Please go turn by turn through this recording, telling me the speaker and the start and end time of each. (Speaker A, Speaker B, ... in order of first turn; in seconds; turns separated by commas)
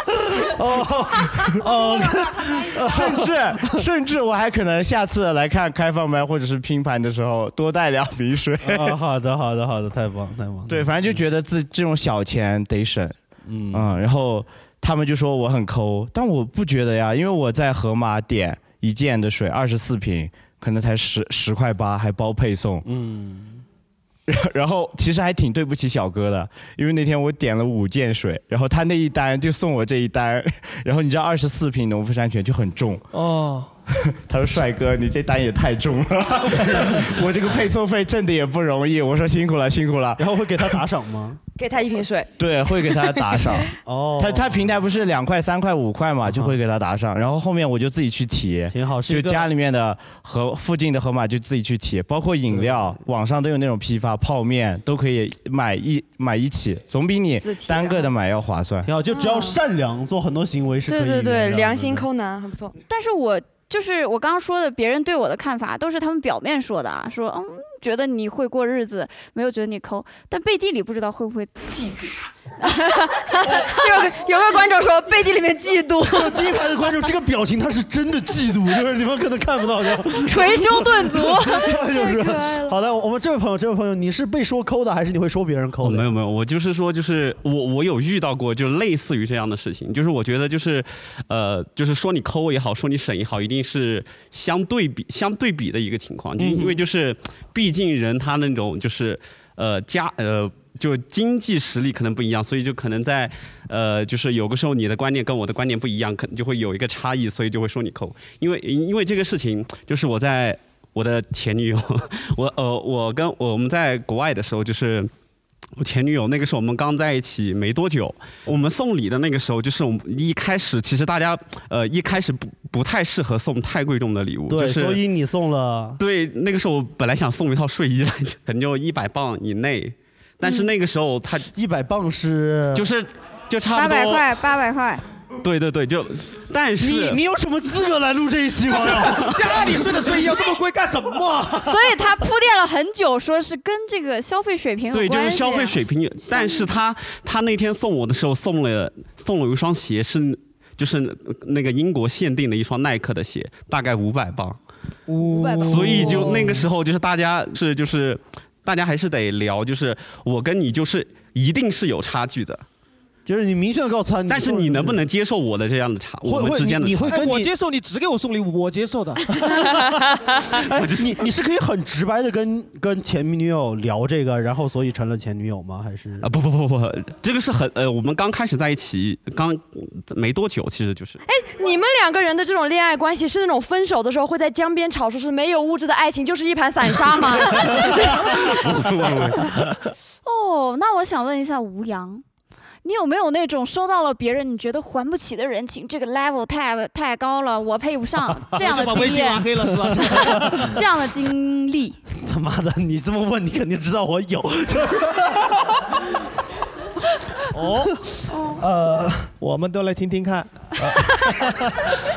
Speaker A: 0.4-3.8, Speaker B: 1.6-2.9, Speaker C: 2.9-9.0, Speaker A: 8.6-11.2, Speaker C: 10.7-13.2, Speaker A: 13.5-13.9, Speaker C: 13.7-22.9, Speaker A: 22.9-23.6, Speaker C: 24.3-33.0, Speaker D: 33.1-33.7, Speaker C: 34.2-40.7, Speaker A: 36.7-37.1, Speaker A: 40.2-41.4, Speaker E: 41.6-42.3, Speaker C: 42.4-58.9, Speaker A: 43.8-44.9, Speaker A: 46.3-46.6, Speaker A: 48.7-49.5, Speaker A: 52.5-52.8, Speaker E: 57.4-58.1, Speaker A: 58.9-62.1, Speaker E: 59.1-59.6, Speaker E: 60.9-62.8, Speaker B: 62.9-72.0, Speaker B: 72.6-76.3, Speaker A: 76.1-86.1, Speaker B: 80.2-82.7, Speaker F: 85.8-115.1, Speaker A: 96.4-96.8, Speaker F: 115.8-125.0, Speaker A: 124.5-126.0, Speaker F: 126.0-131.5, Speaker A: 131.6-132.9, Speaker F: 132.7-134.2, Speaker B: 133.7-135.0, Speaker F: 135.4-137.2, Speaker A: 136.8-139.8, Speaker D: 138.7-141.7, Speaker B: 141.7-146.7, Speaker F: 144.9-154.6, Speaker D: 155.1-156.6, Speaker F: 155.6-162.6, Speaker A: 163.3-165.0, Speaker F: 164.3-167.3, Speaker A: 166.2-167.5, Speaker D: 167.1-169.5, Speaker A: 169.5-176.3, Speaker F: 170.7-171.2, Speaker F: 176.2-181.2, Speaker E: 181.3-188.5, Speaker F: 188.8-189.4, Speaker B: 190.2-192.2, Speaker B: 192.8-202.0, Speaker D: 198.6-200.5, Speaker A: 200.1-200.8, Speaker A: 202.2-206.1, Speaker D: 207.5-207.9, Speaker A: 208.4-209.3, Speaker D: 209.4-210.5, Speaker A: 210.8-211.9